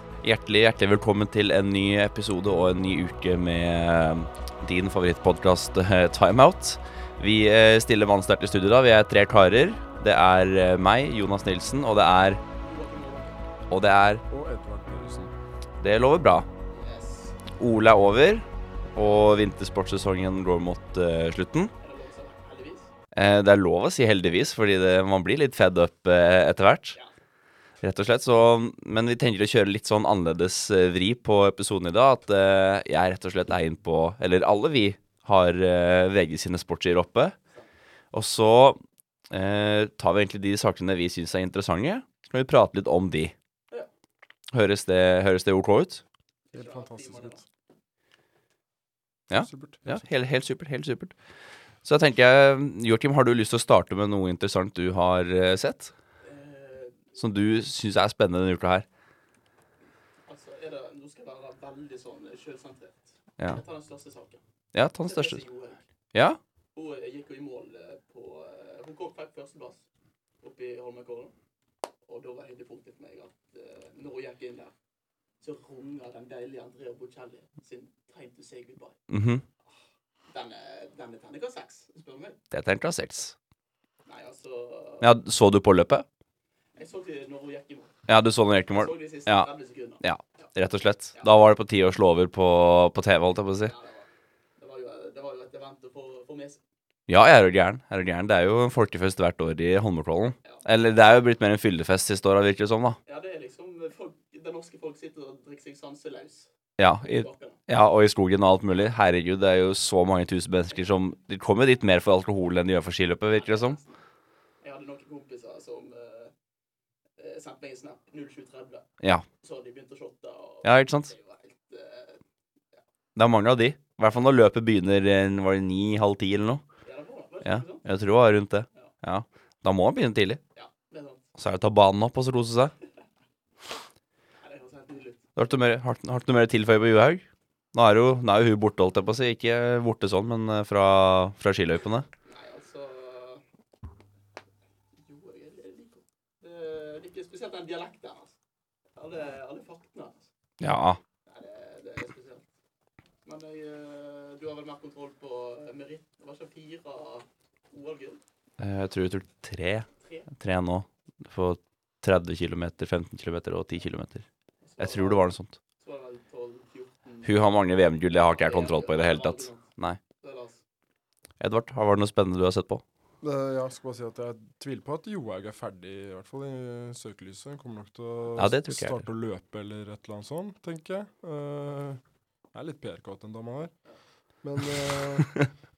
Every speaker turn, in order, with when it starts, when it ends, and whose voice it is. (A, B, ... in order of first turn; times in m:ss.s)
0:00.2-0:12.4 A
0:12.6-0:13.4 B
0:13.7-0:14.2 A
0:14.3-0:15.4 C
0:15.8-0:16.5 A
0:16.7-0:17.4 B
0:17.6-0:21.7 A
0:21.8-0:22.9 B
0:23.1-0:27.0 A
0:27.8-0:37.4 A
0:38.1-0:38.8 A
0:39.3-0:43.3 A
0:44.5-0:46.0 A
0:46.5-0:47.5 B
0:46.5-0:47.4 C
0:49.3-0:51.1 A
0:49.3-0:50.0 C
0:51.8-0:55.9 A
0:56.2-0:57.2 B
0:57.2-0:58.9 A
1:00.3-1:04.4 B
1:04.7-1:05.4 A
1:05.0-1:05.9 B
1:06.1-1:06.4 A
1:06.8-1:09.8 B
1:10.4-1:11.3 B
1:12.0-1:14.7 B
1:15.4-1:19.0 B
1:19.1-1:19.4 A
1:20.3-1:22.4 B
1:22.5-1:23.4 A
1:24.1-1:25.1 B
1:25.0-1:26.0 A
1:26.8-1:28.0 B
1:28.1-1:29.5 A
1:28.7-1:30.5 B
1:30.0-1:33.7 A
1:33.6-1:36.6 B
1:37.1-1:43.0 A
1:43.1-1:46.5 B
1:46.8-1:53.8 A
1:47.0-1:47.6 B
1:53.3-1:54.0 B
1:54.6-1:56.3 B
1:57.2-1:58.9 B
1:59.4-2:02.2 B
2:00.6-2:01.1 A
2:03.2-2:06.6 A
2:06.8-2:07.9 B
2:07.4-2:10.4 A
2:10.6-2:11.2 B
2:11.4-2:12.7 A
2:14.4-2:15.2 B
2:15.4-2:22.1 A
2:22.3-2:23.4 B
2:25.0-2:28.4 B
2:29.0-2:30.3 B
2:30.6-2:31.0 A
2:31.3-2:32.5 B
2:33.2-2:38.2 B
2:38.6-2:44.2 A
2:40.0-2:40.3 B
2:44.6-2:47.5 B
2:44.8-2:45.5 A
2:47.2-2:50.0 A
2:48.1-2:49.6 B
2:50.2-2:50.6 B
2:51.4-2:52.8 A
2:53.2-3:02.0 C
2:58.4-2:59.0 A
3:02.5-3:03.7 C
3:04.4-3:05.4 C